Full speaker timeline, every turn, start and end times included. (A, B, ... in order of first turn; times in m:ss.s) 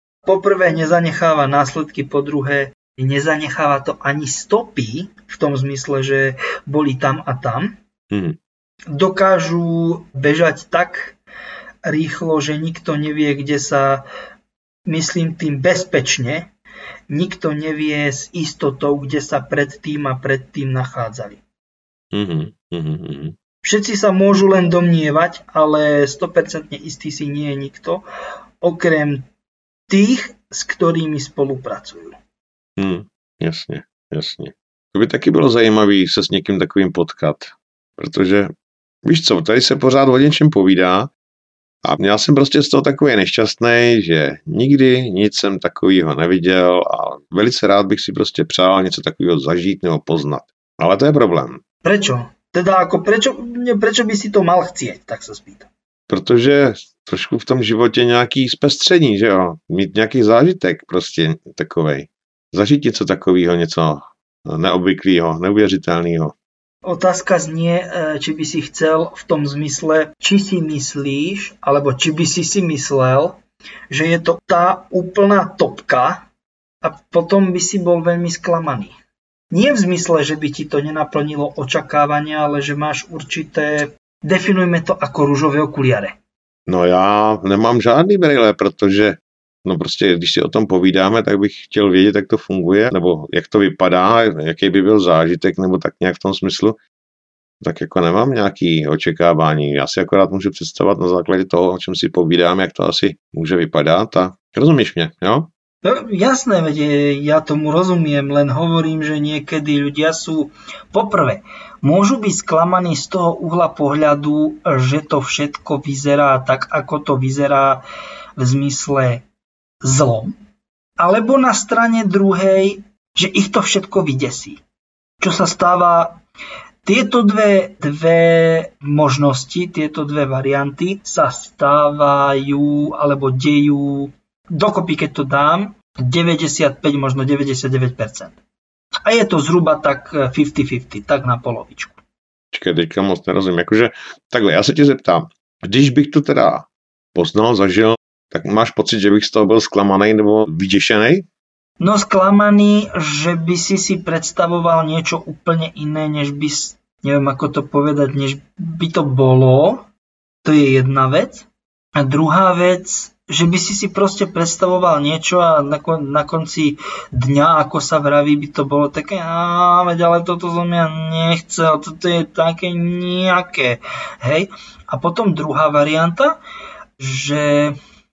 0:00.2-0:07.8 A
0:08.1-0:08.4 B
0:08.9-0:11.2 A
0:11.8-0:14.0 A
0:14.9-0:16.5 A
0:17.1-0:21.4 A
0:22.1-0:23.4 B
0:23.6-0:28.0 A
0:28.6-0:29.3 A
0:29.9-0:32.2 A
0:32.8-0:38.5 B
0:39.0-0:41.1 B
0:41.8-0:51.6 B
0:51.8-0:55.7 A
0:56.1-1:06.4 B
1:06.8-1:13.4 A
1:13.9-1:16.2 A
1:16.8-1:19.0 A
1:19.5-1:26.2 A
1:26.7-1:36.8 B
1:37.6-1:45.5 B
1:45.8-1:57.8 A
1:58.4-1:59.2 A
1:59.8-2:00.4 A
2:01.0-2:04.6 A
2:05.2-2:06.2 A
2:06.8-2:18.4 A
2:19.0-2:22.0 A
2:22.5-2:31.3 B
2:31.8-2:39.9 A
2:40.4-2:41.5 A
2:42.0-2:56.4 A
2:57.0-2:57.8 A